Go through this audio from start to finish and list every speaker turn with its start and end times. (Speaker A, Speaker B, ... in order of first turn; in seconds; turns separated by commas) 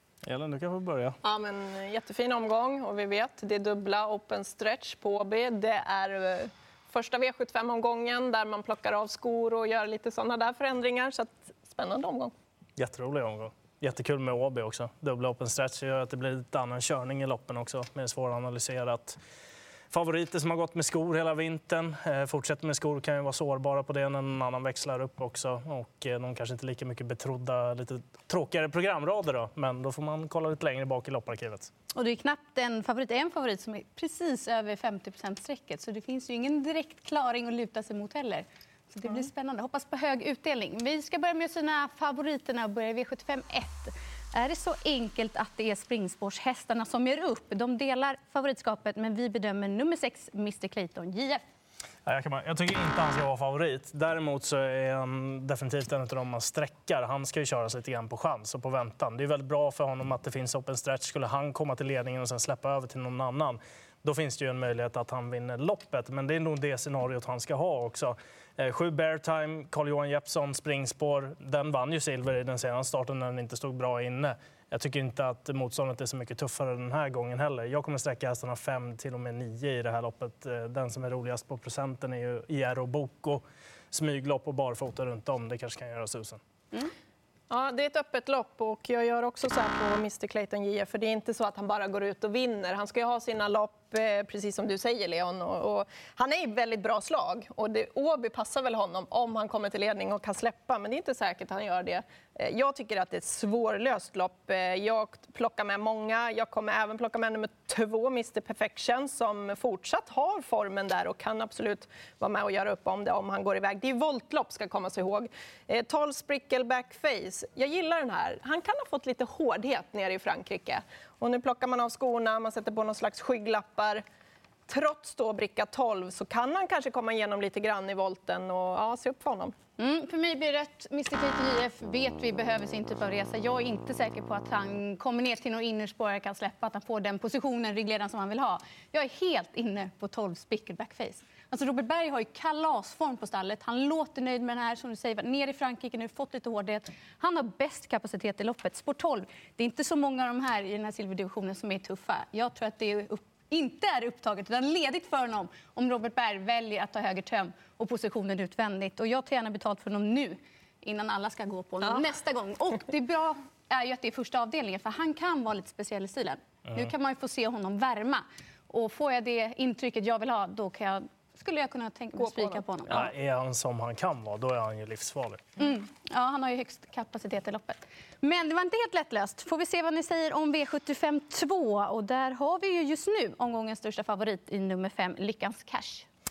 Speaker A: 0.2-1.2, Speaker B: 1.2-12.3, Speaker A: 12.8-19.2, Speaker A: 19.9-31.7, Speaker C: 31.9-51.4, Speaker A: 52.0-86.4, Speaker B: 87.5-124.0, Speaker B: 124.7-129.5, Speaker C: 129.8-173.1, Speaker A: 172.9-175.4, Speaker C: 175.6-186.1